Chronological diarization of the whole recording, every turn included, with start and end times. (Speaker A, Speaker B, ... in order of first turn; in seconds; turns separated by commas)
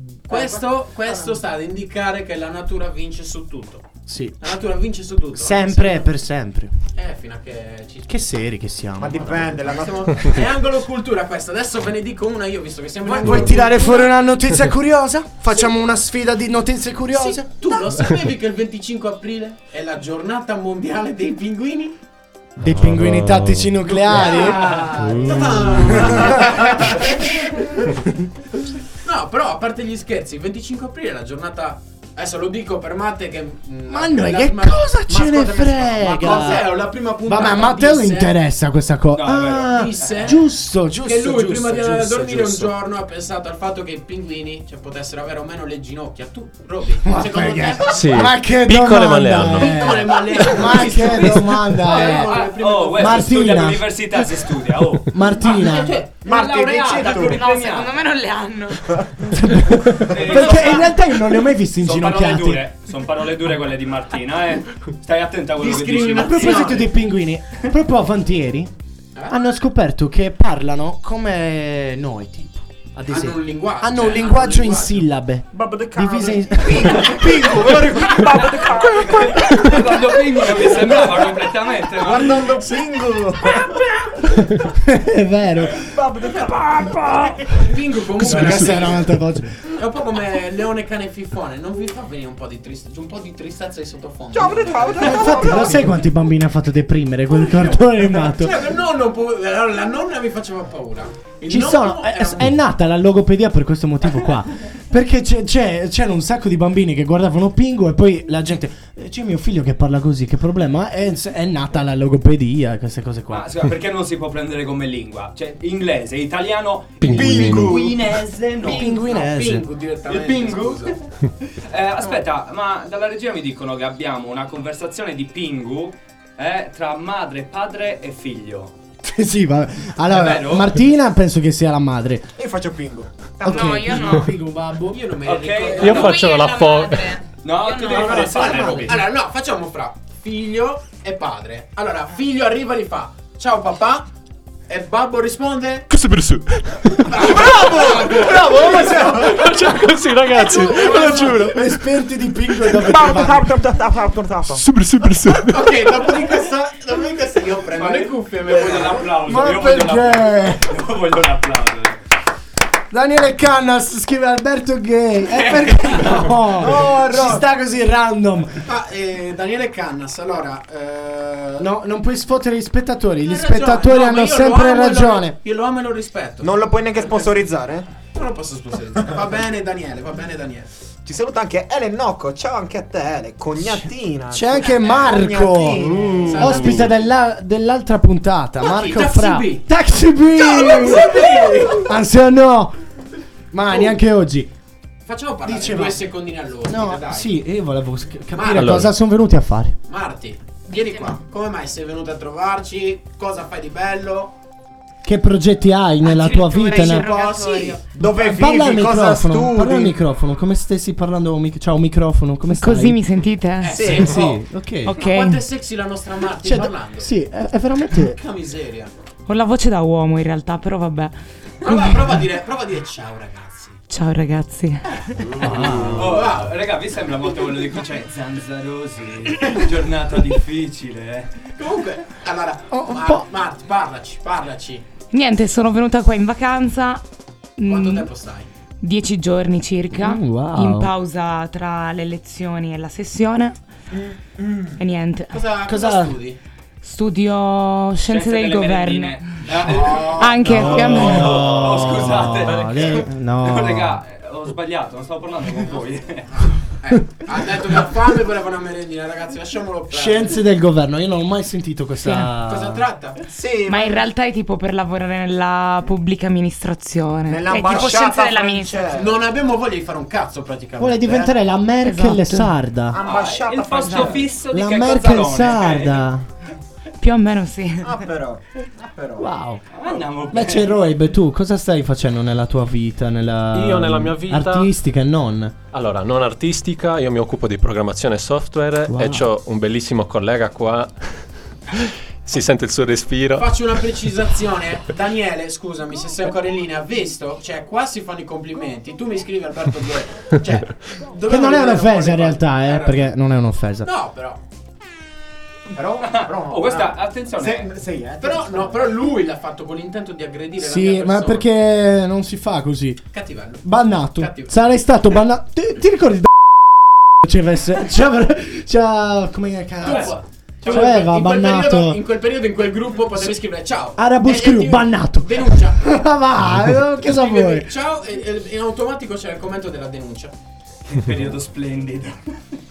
Speaker A: 0.3-3.9, Speaker B: 4.1-4.4, Speaker A: 4.4-6.1, Speaker B: 5.3-6.7, Speaker A: 6.9-8.2, Speaker B: 8.1-9.6, Speaker C: 9.0-10.4, Speaker A: 9.1-14.2, Speaker B: 13.1-17.5, Speaker D: 13.2-13.5, Speaker A: 17.1-22.0, Speaker B: 22.6-26.9, Speaker D: 22.6-24.3, Speaker A: 24.1-27.9, Speaker D: 25.0-26.0, Speaker A: 29.0-34.9, Speaker B: 33.9-42.8, Speaker C: 35.1-36.9, Speaker A: 36.0-38.4, Speaker E: 39.1-40.4, Speaker A: 39.7-40.4, Speaker A: 41.0-48.1, Speaker B: 47.0-52.4, Speaker D: 47.9-50.4, Speaker A: 49.6-53.7, Speaker E: 51.9-58.0, Speaker B: 52.9-53.9, Speaker B: 55.1-56.0, Speaker C: 56.2-57.4, Speaker F: 57.0-58.9, Speaker B: 59.3-62.7, Speaker E: 60.0-66.8, Speaker A: 65.6-66.9, Speaker B: 66.2-68.7, Speaker B: 69.3-78.4, Speaker A: 73.1-75.0, Speaker C: 75.5-83.9, Speaker E: 78.4-82.6, Speaker B: 84.5-85.9, Speaker C: 85.7-87.5, Speaker B: 86.7-87.4, Speaker A: 87.5-89.1, Speaker B: 88.2-89.5, Speaker A: 89.7-96.0, Speaker C: 94.3-96.0, Speaker B: 95.0-98.6, Speaker A: 97.4-102.6, Speaker B: 101.5-113.5, Speaker E: 113.3-118.9, Speaker D: 117.0-117.8, Speaker C: 117.1-117.9, Speaker A: 118.6-121.0, Speaker B: 118.6-119.6, Speaker E: 120.1-128.7, Speaker B: 129.0-132.3, Speaker E: 130.1-130.8, Speaker C: 132.4-133.3, Speaker B: 133.4-135.0, Speaker F: 133.4-134.3, Speaker A: 134.9-136.2, Speaker E: 135.2-136.1, Speaker D: 135.8-137.1, Speaker F: 135.9-138.5, Speaker E: 137.4-139.1, Speaker A: 137.9-144.1, Speaker B: 138.4-138.8, Speaker A: 144.7-145.9, Speaker D: 145.9-147.7, Speaker A: 147.1-149.6, Speaker C: 147.2-149.5, Speaker D: 149.1-151.7, Speaker A: 150.3-151.5, Speaker B: 150.8-153.5, Speaker C: 152.7-154.7, Speaker D: 154.5-156.1, Speaker A: 155.3-159.1, Speaker E: 157.8-162.0, Speaker B: 159.2-160.7, Speaker B: 162.9-168.6, Speaker A: 165.3-166.3, Speaker C: 166.6-167.4, Speaker A: 168.7-171.7, Speaker B: 171.6-175.4, Speaker A: 173.2-177.5, Speaker C: 176.4-177.9, Speaker A: 178.1-180.7, Speaker C: 181.1-186.8, Speaker B: 184.3-192.8, Speaker A: 184.7-185.1, Speaker A: 186.1-186.9, Speaker D: 186.3-186.8, Speaker A: 188.6-189.7, Speaker A: 190.3-191.9, Speaker B: 193.5-194.5, Speaker A: 193.7-193.9, Speaker A: 195.1-197.3, Speaker B: 195.4-196.1, Speaker B: 196.7-199.8, Speaker A: 198.3-198.9, Speaker D: 198.5-198.9, Speaker A: 199.9-204.3, Speaker B: 205.0-207.1, Speaker F: 206.0-207.8, Speaker C: 206.7-210.0, Speaker B: 208.1-213.0, Speaker F: 212.6-214.0, Speaker A: 213.6-217.1, Speaker C: 213.7-214.2, Speaker B: 213.9-215.0, Speaker F: 214.9-215.4, Speaker B: 216.4-218.2, Speaker A: 217.9-218.9, Speaker F: 219.3-222.1, Speaker A: 221.6-223.8, Speaker F: 223.9-225.0, Speaker B: 225.4-226.1, Speaker E: 225.7-231.3, Speaker A: 226.0-226.5, Speaker A: 231.6-234.8, Speaker B: 232.7-233.3, Speaker F: 235.1-237.0, Speaker F: 237.6-238.1, Speaker A: 237.7-238.5, Speaker F: 238.8-243.6, Speaker B: 239.9-240.9, Speaker F: 244.8-245.4, Speaker A: 245.3-246.4, Speaker B: 245.7-246.2, Speaker F: 246.8-251.5, Speaker E: 248.0-256.3, Speaker A: 249.6-251.0, Speaker B: 250.4-253.9, Speaker A: 256.3-260.4, Speaker B: 259.9-262.8, Speaker F: 262.0-262.3, Speaker A: 262.4-263.2, Speaker C: 263.3-264.1, Speaker F: 263.6-269.0, Speaker C: 267.3-269.3, Speaker A: 268.9-271.4, Speaker B: 270.8-273.0, Speaker F: 271.8-272.5, Speaker C: 272.9-274.3, Speaker E: 273.0-276.1, Speaker B: 274.5-276.2, Speaker F: 277.0-278.0, Speaker C: 277.8-279.3, Speaker B: 279.2-279.6, Speaker E: 279.7-280.7, Speaker B: 280.3-285.6, Speaker D: 283.5-284.7, Speaker D: 285.7-293.6, Speaker B: 288.9-289.3, Speaker A: 293.4-303.1, Speaker B: 301.3-303.9, Speaker A: 303.9-304.4, Speaker C: 305.7-308.9, Speaker E: 306.0-307.7, Speaker A: 308.2-311.5, Speaker B: 310.6-313.0, Speaker A: 313.1-314.5, Speaker B: 313.6-316.3, Speaker B: 317.2-322.0, Speaker A: 319.8-325.9, Speaker E: 319.8-320.9, Speaker B: 323.9-327.7, Speaker A: 327.0-330.3, Speaker E: 330.9-332.4